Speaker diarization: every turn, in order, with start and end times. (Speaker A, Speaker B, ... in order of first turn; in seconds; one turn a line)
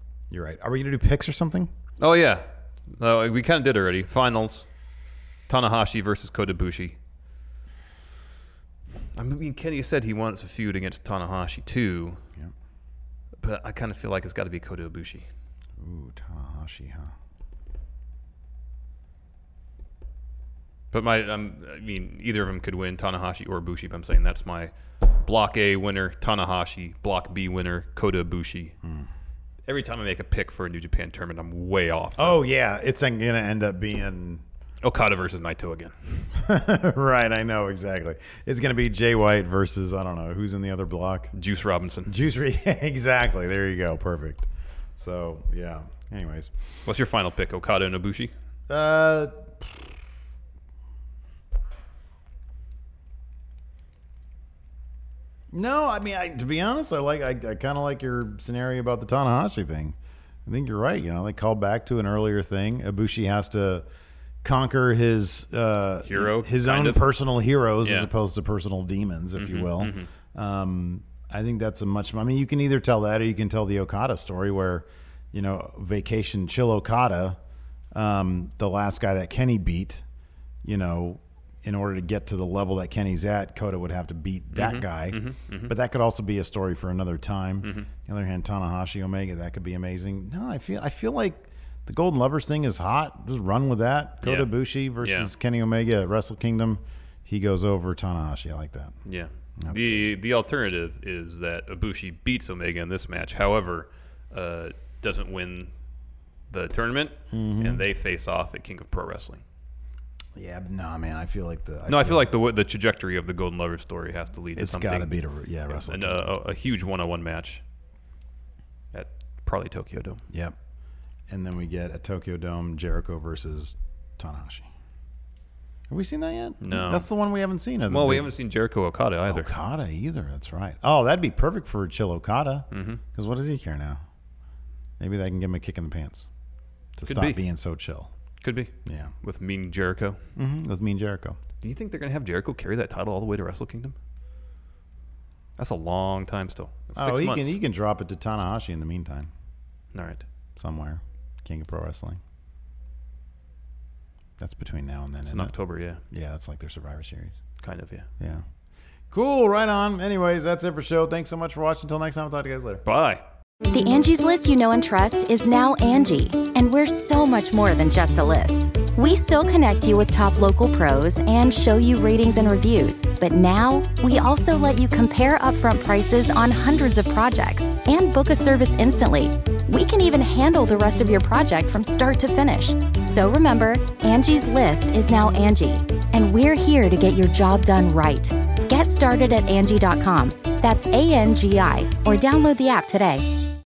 Speaker A: 0.3-1.7
Speaker B: 2.0-4.7
Speaker B: 5.5-7.0
Speaker B: 9.2-12.2
Speaker B: 13.4-15.3
Speaker A: 15.8-17.1
Speaker B: 20.9-28.8
Speaker A: 28.8-29.1
Speaker B: 29.7-32.4
Speaker A: 32.2-34.4
Speaker B: 34.8-36.3
Speaker A: 36.4-41.3
Speaker B: 41.4-42.1
Speaker A: 42.1-46.5
Speaker B: 46.9-48.3
Speaker A: 48.7-49.8
Speaker A: 55.5-63.9
Speaker A: 64.4-77.4
Speaker B: 66.1-67.0
Speaker B: 67.8-68.1
Speaker B: 69.4-70.1
Speaker A: 77.9-80.0
Speaker A: 80.6-99.0
Speaker B: 84.5-85.7
Speaker B: 87.6-87.9
Speaker B: 94.2-95.3
Speaker B: 99.1-105.7
Speaker A: 99.6-100.1
Speaker B: 106.5-109.4
Speaker A: 107.3-107.8
Speaker A: 110.3-112.4
Speaker B: 111.9-115.2
Speaker A: 114.5-116.2
Speaker B: 115.7-117.6
Speaker B: 118.9-120.2
Speaker A: 120.3-120.6
Speaker A: 121.3-124.7
Speaker A: 125.9-128.3
Speaker B: 126.6-127.1
Speaker B: 127.9-129.5
Speaker A: 129.3-134.0
Speaker B: 132.7-133.0
Speaker A: 135.0-136.3
Speaker A: 137.0-138.1
Speaker B: 137.1-137.4
Speaker B: 138.4-138.7
Speaker A: 138.8-139.1
Speaker B: 139.2-140.2
Speaker A: 140.4-141.4
Speaker B: 141.6-144.0
Speaker B: 145.6-147.6
Speaker A: 146.9-149.3
Speaker B: 149.9-150.3
Speaker A: 150.6-152.2
Speaker A: 154.4-155.5
Speaker B: 155.3-156.0
Speaker A: 156.1-157.4
Speaker B: 157.6-158.1
Speaker A: 158.2-158.4
Speaker A: 159.1-162.8
Speaker B: 162.8-163.2
Speaker C: 163.7-193.3